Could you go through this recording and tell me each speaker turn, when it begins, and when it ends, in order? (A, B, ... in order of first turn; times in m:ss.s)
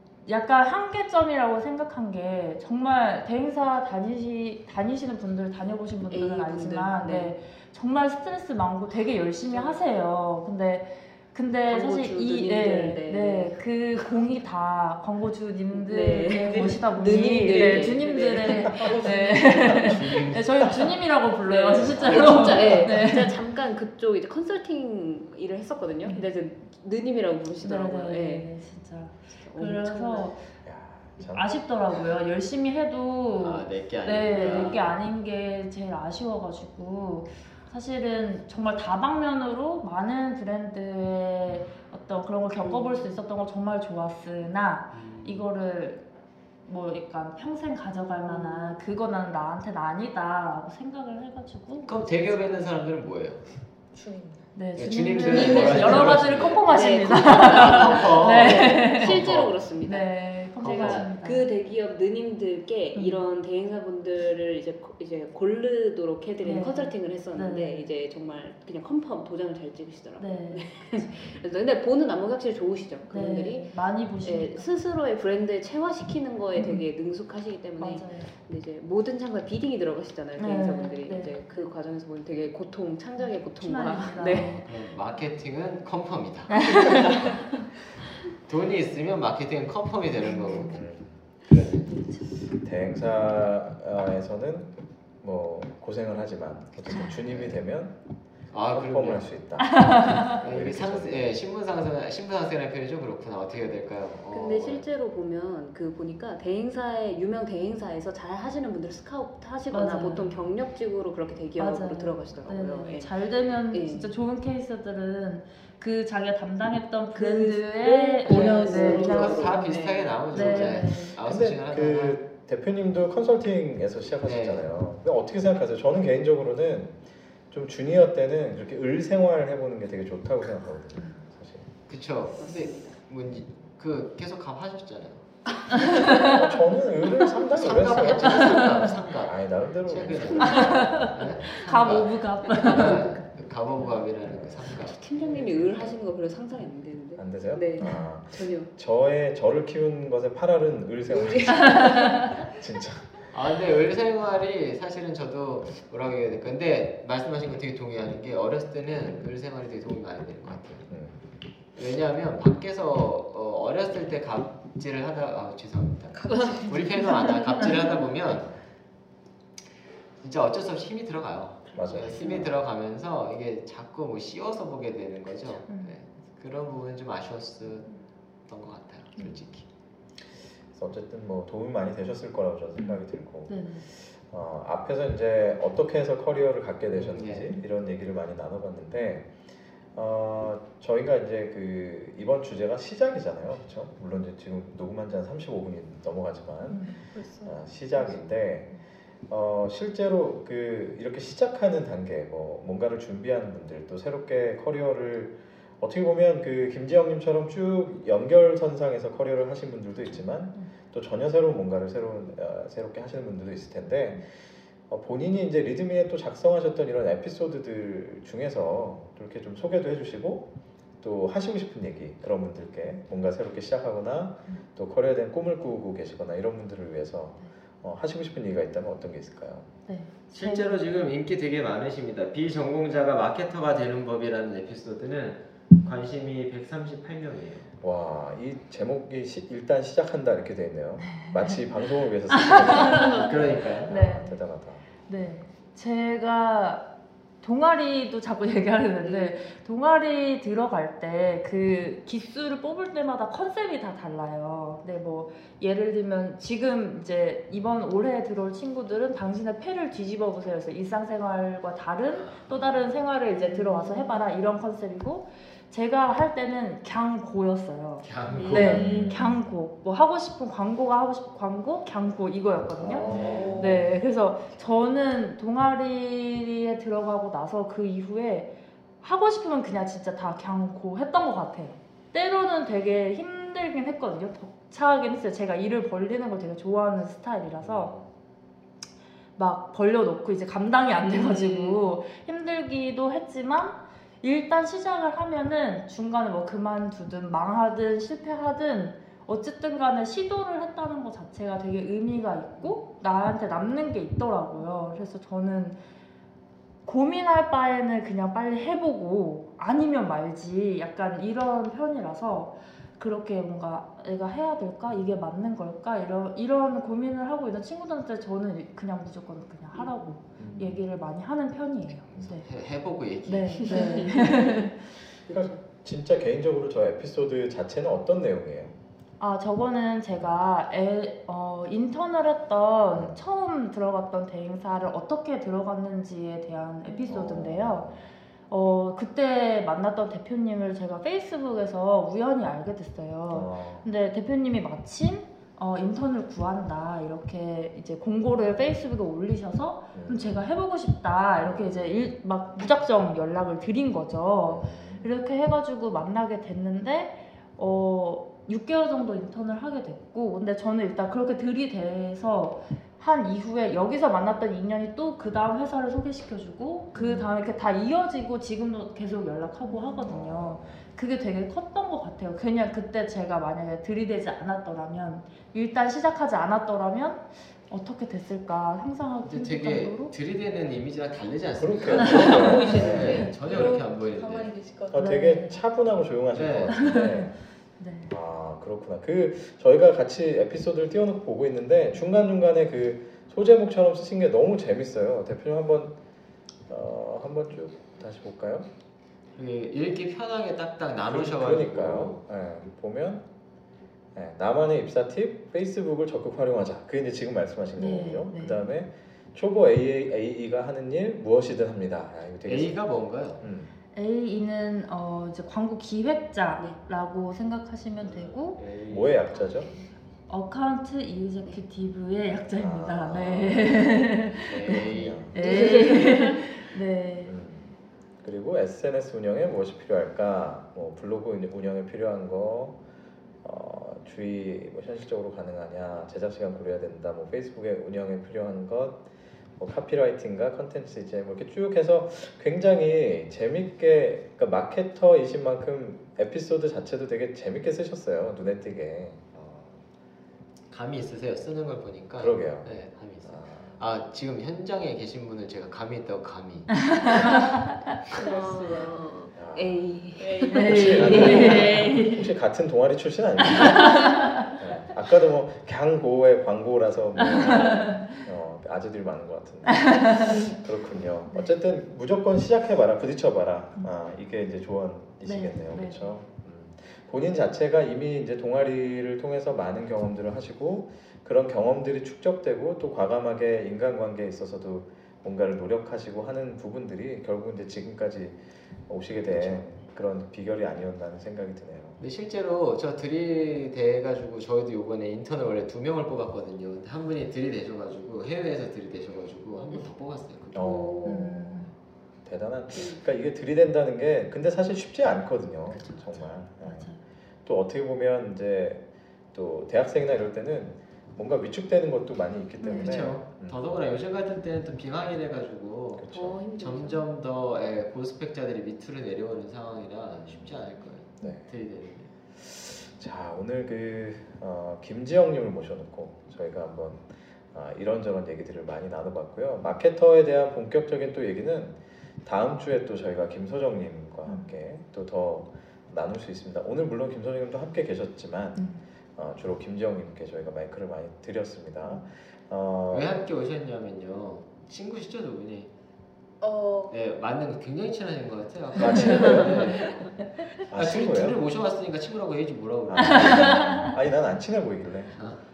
0:00.2-0:23.4 A
0:06.1-0:07.3 B
0:09.5-0:09.8 B
0:11.7-0:14.1 B
0:15.7-0:19.4 B
0:17.1-0:17.9 C
0:18.7-0:20.0 C
0:19.8-0:20.7 D
0:21.4-0:28.5 B
0:21.7-0:22.9 E
0:27.6-0:30.5 A
0:29.2-0:30.4 B
0:30.6-0:31.5 E
0:31.2-0:46.0 A
0:33.4-0:34.9 D
0:34.3-0:34.8 B
0:42.6-0:43.0 B
0:44.9-0:45.4 D
0:46.6-0:52.5 A
0:48.2-0:48.8 B
0:51.8-0:53.5 D
0:53.9-0:54.4 C
0:54.5-0:59.2 A
0:54.8-0:59.7 D
0:55.3-0:55.9 B
0:56.7-1:24.6 B
0:59.8-1:01.5 A
1:00.6-1:01.1 D
1:02.9-1:03.2 A
1:06.4-1:07.9 A
1:10.2-1:11.3 A
1:13.1-1:14.7 A
1:16.5-1:16.8 A
1:17.8-1:18.3 A
1:20.4-1:21.4 A
1:23.2-1:24.6 A
1:24.3-1:24.6 E
1:24.6-1:27.0 D
1:26.5-1:27.4 A
1:26.8-1:27.3 B
1:28.5-1:30.8 D
1:30.4-1:30.7 A
1:30.6-1:31.2 E
1:31.5-1:31.9 D
1:31.9-1:32.3 A
1:32.5-1:38.0 E
1:37.1-1:37.6 D
1:38.5-1:39.3 D
1:38.7-1:41.3 E
1:39.6-1:40.3 A
1:40.3-1:44.8 D
1:44.3-1:53.2 B
1:49.7-1:50.4 A
1:51.6-1:59.8 A
1:53.7-1:54.1 B
1:57.1-2:00.9 B
1:58.3-1:59.5 C
1:58.4-2:02.2 D
2:00.3-2:01.2 A
2:01.2-2:07.0 E
2:04.2-2:04.6 D
2:07.5-2:11.7 E
2:11.9-2:15.4 D
2:12.4-2:13.0 B
2:15.7-2:16.1 B
2:15.7-2:16.5 A
2:16.1-2:21.3 E
2:17.4-2:25.9 D
2:18.3-2:18.9 A
2:20.4-2:23.2 A
2:20.6-2:21.0 B
2:22.4-2:23.0 B
2:24.2-2:24.8 E
2:24.9-2:28.7 B
2:27.2-2:33.3 E
2:31.2-2:32.5 B
2:31.7-2:32.2 A
2:33.3-2:40.9 D
2:40.9-2:41.2 E
2:41.7-2:48.5 D
2:46.1-2:47.4 C
2:46.3-2:47.6 B
2:50.2-2:57.9 D
2:51.7-2:52.5 E
2:55.7-2:55.9 A
2:58.5-2:59.6 D
3:00.7-3:09.3 E
3:03.5-3:03.9 A
3:06.9-3:07.6 D
3:09.9-3:18.8 E
3:16.7-3:17.0 A
3:17.1-3:17.5 C
3:19.3-3:34.3 E
3:34.9-3:40.5 E
3:41.0-3:49.7 E
3:49.9-3:50.8 A
3:50.3-3:57.7 D
3:57.8-4:04.8 E
4:01.1-4:01.5 A
4:02.3-4:03.3 A
4:03.0-4:03.9 D
4:03.9-4:04.4 A
4:05.1-4:06.9 A
4:07.4-4:47.9 A
4:09.0-4:09.5 B
4:22.1-4:22.8 D
4:23.6-4:24.1 B
4:28.0-4:29.3 D
4:28.3-4:29.2 B
4:28.8-4:29.1 E
4:32.9-4:33.8 E
4:32.9-4:33.7 D
4:33.1-4:33.9 C
4:47.6-4:48.0 D
4:49.4-5:05.8 A
4:51.0-4:51.8 B
5:06.8-5:22.5 A
5:20.4-5:20.8 E
5:22.2-5:24.3 D
5:23.2-5:24.8 A
5:23.6-5:24.1 B
5:25.3-5:28.7 E
5:29.2-5:37.9 A
5:36.8-5:37.2 B
5:37.1-5:38.0 E
5:38.5-6:20.1 A
5:43.3-5:43.9 E
5:49.9-5:50.4 E
5:51.4-5:52.0 E
5:54.4-5:55.1 E
6:07.0-6:07.3 E
6:10.0-6:10.8 E
6:19.2-6:24.5 D
6:21.5-6:23.6 E
6:22.1-6:22.8 A
6:22.6-6:25.1 C
6:24.9-6:27.4 E
6:24.9-6:25.6 A
6:26.3-6:26.9 D
6:26.7-6:27.3 A
6:27.8-6:28.1 A
6:28.1-6:36.0 E
6:36.7-6:38.7 E
6:39.4-6:42.2 D
6:41.0-6:43.2 E
6:44.1-6:52.8 E
6:47.8-6:48.7 A
6:52.4-6:53.4 D
6:53.4-6:53.7 E
6:53.9-6:58.6 A
6:58.0-6:59.3 D
6:58.9-6:59.7 E
7:00.3-7:07.3 A
7:02.6-7:05.4 E
7:04.5-7:05.2 D
7:05.3-7:06.5 B
7:07.2-7:12.8 E
7:13.4-7:19.0 E
7:19.6-7:29.8 E
7:30.7-7:36.9 D
7:32.2-7:32.7 E
7:33.2-7:33.8 E
7:36.9-7:37.7 A
7:37.0-7:39.1 C
7:38.2-7:42.0 B
7:39.3-7:40.0 E
7:40.2-7:41.7 C
7:40.5-7:42.3 A
7:40.6-8:08.4 E
7:43.4-7:44.5 A
7:47.2-7:48.2 A
7:49.8-7:50.5 A
7:55.2-7:56.1 A
8:08.9-8:12.0 E
8:12.0-8:21.1 D
8:20.5-8:21.7 E
8:20.6-8:21.2 B
8:21.0-8:21.7 A
8:22.2-8:26.9 E
8:25.7-8:26.1 B
8:26.6-8:27.0 A
8:27.4-8:33.6 E
8:32.6-8:33.0 A
8:32.8-8:42.1 D
8:36.0-8:36.4 E
8:36.1-8:37.0 B
8:41.2-8:41.5 E
8:42.3-9:03.2 E
8:54.2-8:54.5 A
8:58.6-8:58.8 A
9:02.9-9:05.7 D
9:06.4-9:07.0 C
9:06.9-9:10.2 D
9:08.8-9:09.9 E
9:10.7-9:11.4 E
9:10.7-9:13.6 D
9:12.9-9:15.3 E
9:13.0-9:13.9 A
9:15.1-9:15.4 D